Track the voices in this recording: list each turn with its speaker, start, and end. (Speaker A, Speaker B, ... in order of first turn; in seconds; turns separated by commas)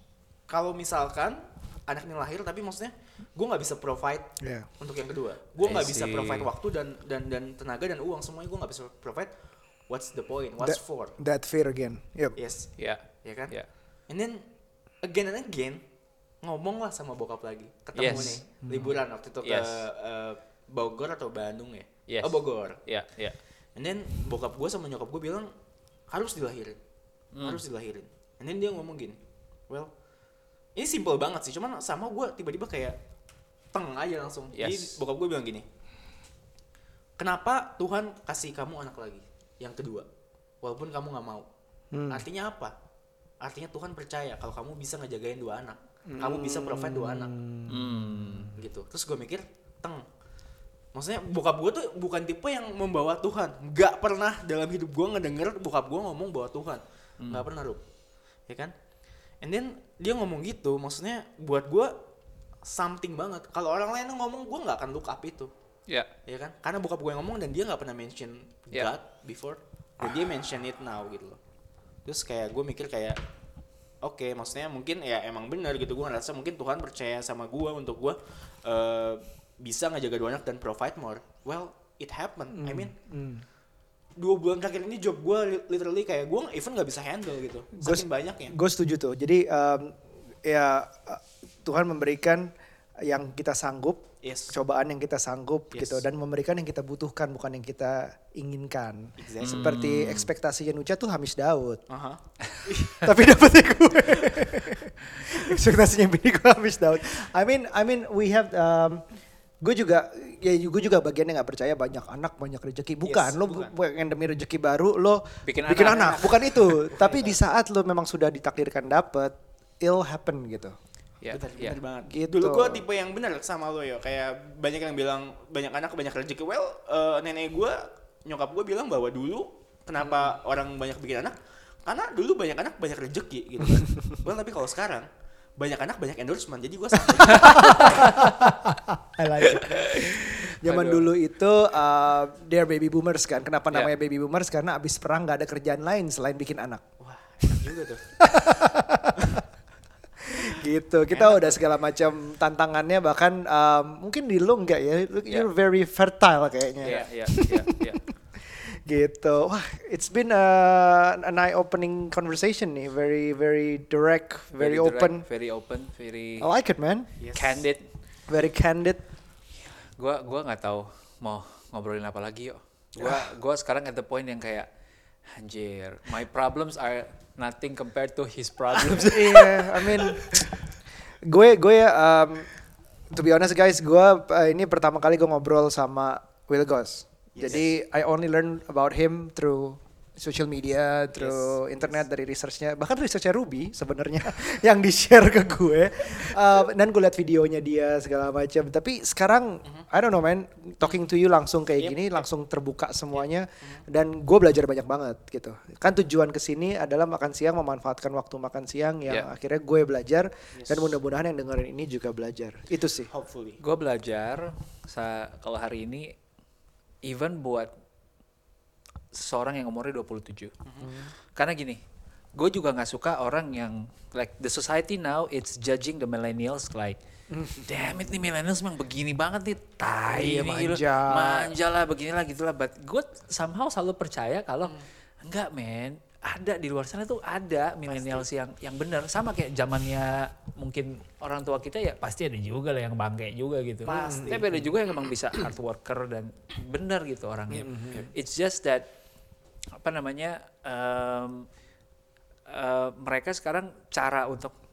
Speaker A: 0.5-9.3, Speaker B: 4.4-4.7, Speaker C: 5.6-6.5, Speaker A: 9.9-11.2, Speaker B: 10.6-12.4, Speaker A: 12.4-13.5, Speaker C: 12.8-13.7, Speaker A: 14.1-14.4, Speaker A: 15.0-15.8, Speaker A: 16.4-22.8, Speaker C: 17.9-18.4, Speaker B: 18.6-19.0, Speaker C: 19.4-19.8, Speaker C: 22.1-23.4, Speaker A: 23.8-25.5, Speaker A: 26.1-26.8, Speaker C: 27.3-27.6, Speaker A: 27.4-29.2, Speaker A: 30.8-33.0, Speaker A: 33.7-35.6, Speaker C: 34.5-35.0, Speaker A: 37.2-40.1, Speaker A: 40.6-41.5, Speaker B: 41.9-42.2, Speaker A: 42.1-42.7, Speaker A: 43.4-47.3, Speaker B: 46.1-48.5, Speaker C: 47.7-48.5, Speaker A: 48.5-50.0, Speaker A: 50.9-57.8, Speaker A: 58.5-58.7, Speaker A: 59.4-61.9, Speaker A: 62.6-65.5, Speaker A: 66.2-71.4, Speaker A: 72.0-73.2, Speaker A: 74.0-82.9, Speaker B: 82.5-83.4, Speaker A: 84.2-88.5, Speaker B: 87.8-92.5, Speaker B: 93.0-101.8, Speaker A: 94.2-94.6, Speaker A: 95.7-96.0, Speaker A: 99.2-99.7, Speaker C: 99.4-100.3, Speaker A: 101.9-102.9, Speaker B: 102.7-109.0, Speaker B: 109.6-120.7, Speaker A: 113.0-113.7, Speaker C: 115.5-116.4, Speaker A: 115.8-117.4, Speaker C: 121.2-121.8, Speaker A: 121.3-138.1, Speaker B: 122.0-122.8, Speaker B: 137.3-146.8, Speaker C: 137.4-138.7, Speaker C: 139.4-141.1, Speaker A: 147.0-148.0, Speaker B: 148.2-149.2, Speaker B: 150.2-165.2, Speaker A: 151.2-151.6, Speaker C: 156.8-158.0, Speaker A: 156.8-157.1, Speaker C: 164.6-166.5, Speaker B: 166.4-167.1, Speaker A: 167.2-167.6, Speaker C: 167.3-167.8, Speaker B: 168.3-169.0, Speaker C: 170.0-174.7, Speaker B: 173.0-173.3, Speaker C: 175.3-180.4, Speaker B: 178.8-180.5, Speaker B: 181.2-182.5, Speaker B: 183.1-213.1, Speaker A: 187.3-187.7, Speaker A: 191.2-192.0, Speaker A: 201.8-202.2, Speaker A: 203.2-203.8, Speaker A: 210.5-211.0, Speaker A: 213.1-213.6, Speaker C: 213.6-216.1, Speaker C: 217.0-217.7, Speaker C: 219.1-220.5, Speaker B: 220.8-221.1, Speaker C: 221.3-221.8, Speaker C: 222.4-227.0, Speaker B: 227.3-228.1, Speaker C: 227.6-248.8, Speaker B: 230.1-231.5, Speaker A: 237.9-238.2, Speaker A: 243.8-244.6, Speaker B: 243.9-244.7, Speaker B: 247.5-248.1, Speaker C: 249.8-251.5, Speaker C: 252.5-254.5